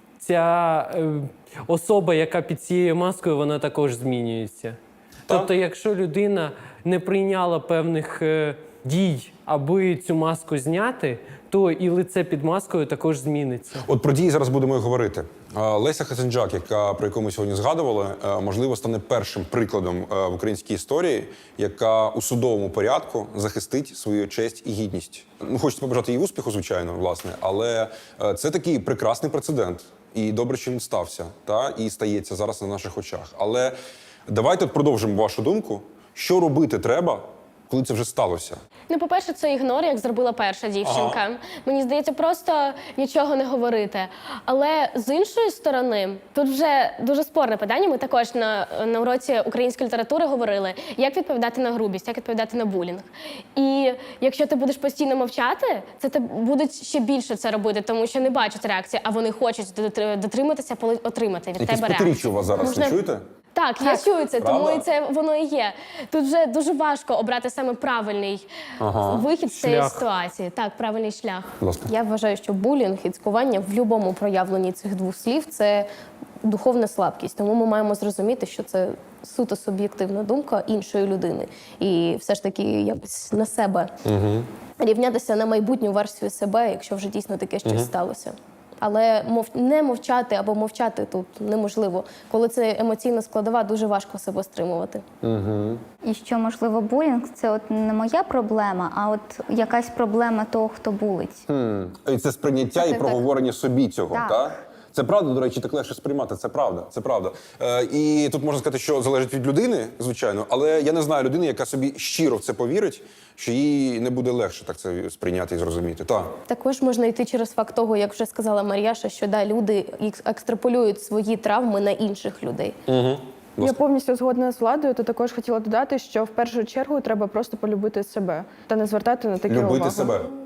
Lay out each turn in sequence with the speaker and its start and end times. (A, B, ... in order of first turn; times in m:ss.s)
0:00.2-0:13.8 A
0:13.8-0:33.7 B
0:34.3-0:38.6 B
0:38.9-1:03.0 C
0:40.8-0:41.2 B
1:01.6-1:03.2 B
1:03.5-1:08.5 C
1:04.4-1:04.8 B
1:08.8-1:09.3 B
1:09.0-1:11.5 C
1:09.5-1:10.0 A
1:11.6-1:11.9 B
1:11.9-1:15.9 D
1:16.4-1:23.9 D
1:24.0-1:24.5 B
1:24.8-1:35.0 D
1:27.6-1:27.9 B
1:35.2-1:35.8 B
1:36.0-1:41.4 E
1:41.5-1:56.3 B
1:42.8-1:43.1 E
1:42.9-1:43.2 D
1:44.1-1:44.5 E
1:56.5-2:02.8 D
2:02.9-2:03.8 B
2:03.6-2:10.1 F
2:09.5-2:10.3 B